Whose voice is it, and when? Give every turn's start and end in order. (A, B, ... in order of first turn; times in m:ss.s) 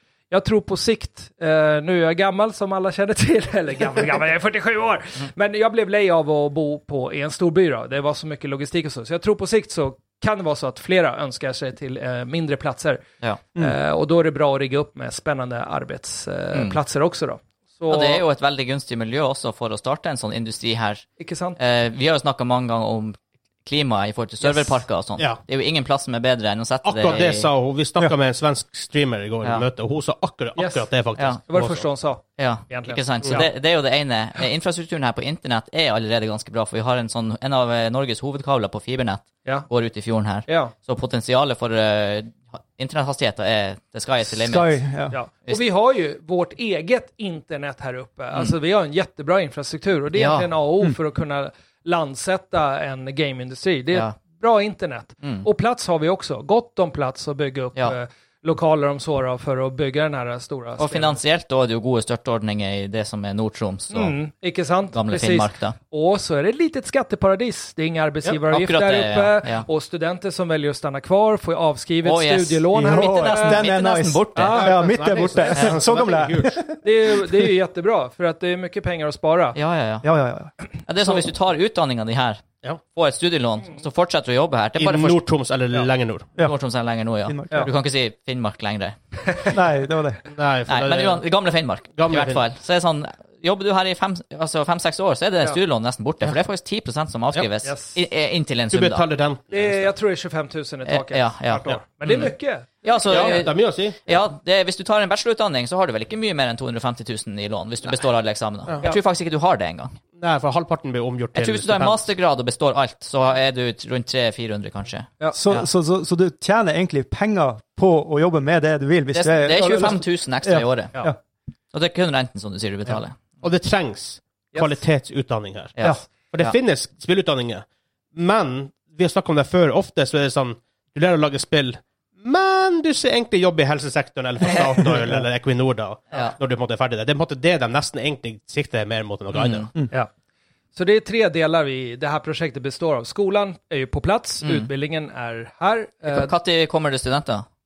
0:00.3-0:13.0 A
0:13.5-0:18.2 A
0:16.5-0:16.8 B
0:17.9-0:21.0 B
0:21.2-0:21.6 A
0:21.6-0:27.5 B
0:24.4-0:24.8 A
0:26.8-0:31.9 C
0:30.6-0:30.8 A
0:31.5-0:33.5 A
0:32.4-0:44.8 B
0:40.5-0:40.7 A
0:44.5-0:45.1 D
0:45.1-1:01.2 A
0:50.1-0:50.5 B
0:55.2-0:55.5 B
1:00.8-1:04.2 B
1:03.9-1:13.7 A
1:04.9-1:05.8 B
1:08.5-1:09.6 B
1:12.0-1:14.9 B
1:12.7-1:17.5 D
1:14.4-1:14.8 A
1:14.6-1:16.6 C
1:16.8-1:19.6 A
1:19.5-1:20.0 B
1:20.0-1:20.5 D
1:20.8-1:25.2 B
1:24.8-1:26.3 C
1:26.4-1:29.0 B
1:27.3-1:27.7 D
1:29.5-1:30.2 D
1:30.3-1:31.2 C
1:30.7-1:39.0 B
1:31.9-1:32.4 C
1:37.6-1:38.0 A
1:38.7-1:39.9 C
1:39.5-1:43.3 A
1:40.8-1:50.0 B
1:43.0-1:44.0 C
1:50.2-1:52.0 C
1:51.3-1:55.7 B
1:55.3-2:01.2 D
1:59.1-2:00.9 B
2:01.7-2:03.2 B
2:03.4-2:05.8 C
2:05.8-2:06.5 B
2:06.3-2:19.7 C
2:19.3-2:19.7 B
2:20.7-2:26.3 A
2:24.4-2:24.7 B
2:26.0-2:27.5 B